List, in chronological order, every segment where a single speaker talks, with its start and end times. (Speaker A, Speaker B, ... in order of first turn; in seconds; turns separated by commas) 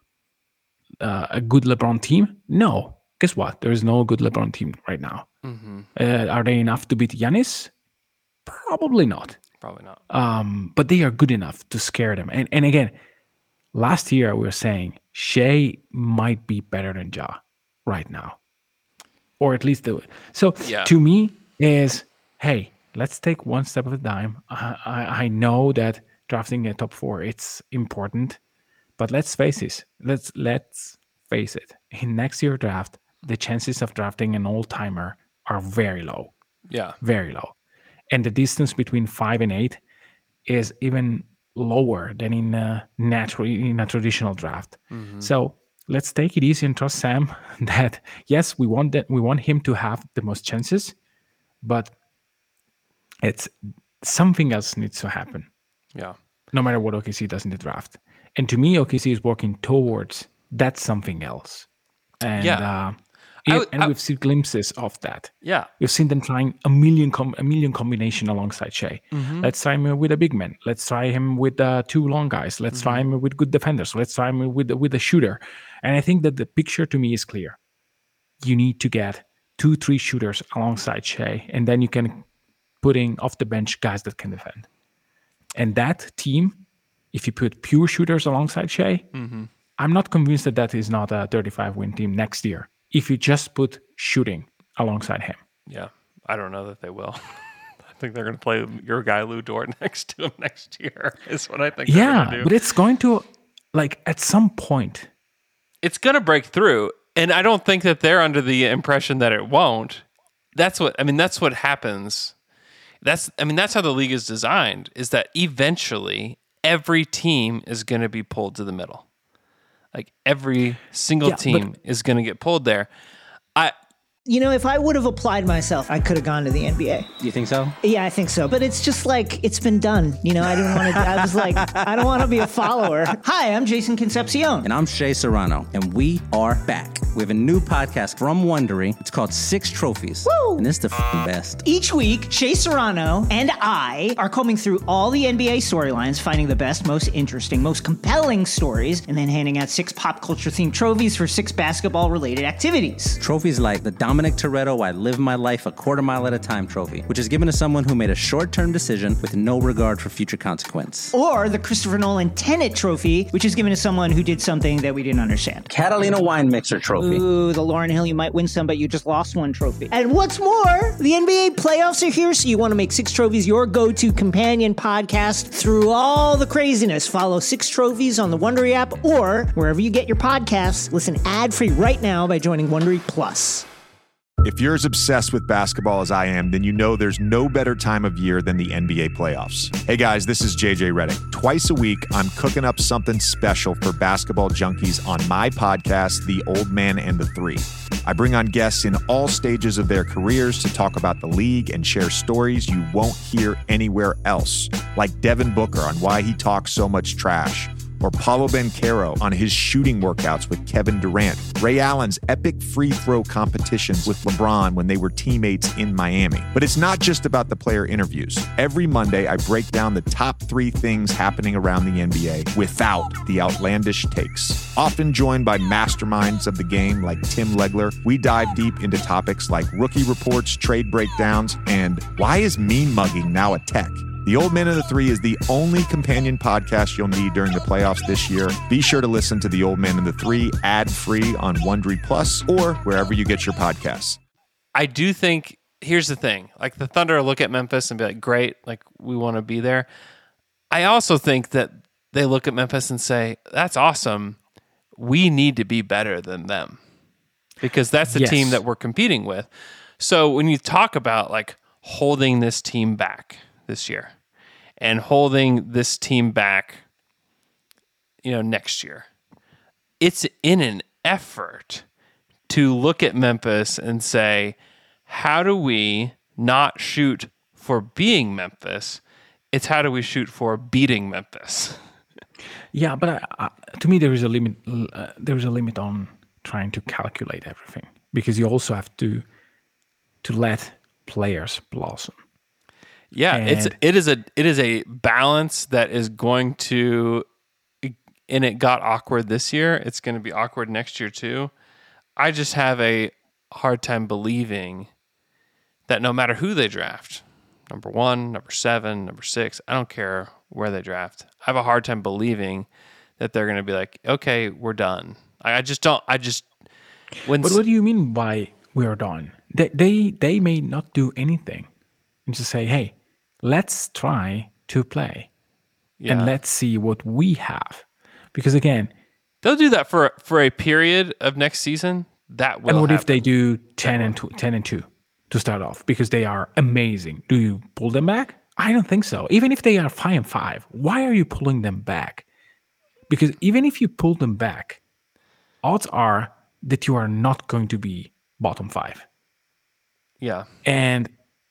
Speaker A: 1.0-5.3, Speaker B: 5.4-5.9, Speaker A: 5.9-7.7, Speaker A: 8.4-9.4, Speaker B: 9.6-10.0, Speaker A: 10.1-12.9, Speaker A: 13.7-18.4, Speaker A: 19.4-28.4, Speaker B: 20.6-20.9, Speaker A: 29.0-36.3, Speaker B: 36.7-37.0, Speaker A: 37.0-37.5, Speaker A: 38.1-39.8, Speaker A: 40.5-50.9, Speaker B: 44.9-45.3, Speaker A: 51.6-51.9, Speaker A: 53.2-55.5, Speaker A: 56.5-61.7, Speaker A: 62.2-77.6, Speaker B: 62.4-62.7, Speaker B: 63.4-63.9, Speaker B: 65.4-65.7, Speaker B: 69.1-69.5, Speaker B: 72.7-73.0, Speaker A: 78.4-82.2, Speaker A: 82.8-84.7, Speaker A: 85.5-86.6, Speaker A: 87.1-89.1, Speaker B: 89.1-89.5, Speaker A: 89.8-95.4, Speaker B: 95.7-102.5, Speaker A: 101.8-105.1, Speaker B: 105.8-110.0, Speaker B: 110.5-112.3, Speaker B: 113.0-119.0, Speaker B: 119.9-122.9, Speaker A: 121.2-121.7, Speaker C: 124.3-127.1, Speaker D: 127.2-127.7, Speaker C: 127.8-134.7, Speaker D: 130.9-131.8, Speaker D: 134.6-141.6, Speaker C: 140.2-140.6, Speaker C: 141.6-153.2, Speaker D: 153.2-161.1, Speaker C: 161.1-165.7, Speaker D: 165.7-167.2, Speaker C: 166.9-183.7, Speaker E: 184.4-244.2, Speaker B: 244.7-249.9, Speaker B: 250.7-254.4, Speaker B: 254.9-256.8, Speaker B: 257.6-264.1, Speaker A: 258.1-258.6, Speaker B: 264.8-266.8, Speaker B: 268.2-269.1, Speaker B: 270.0-271.8, Speaker B: 272.5-274.6, Speaker B: 275.1-281.8, Speaker A: 282.7-289.2, Speaker A: 290.2-292.2, Speaker B: 293.1-297.2, Speaker A: 293.3-293.8, Speaker B: 297.8-301.5, Speaker B: 302.1-304.9, Speaker B: 305.9-312.7, Speaker B: 313.2-316.5, Speaker B: 317.2-317.6, Speaker A: 317.4-321.7, Speaker A: 322.2-325.3, Speaker B: 326.0-326.3, Speaker A: 326.1-328.9, Speaker B: 329.4-333.2, Speaker A: 332.6-342.2, Speaker B: 333.8-334.1, Speaker A: 343.1-344.8, Speaker A: 345.6-349.1, Speaker B: 350.2-350.5, Speaker A: 350.6-351.1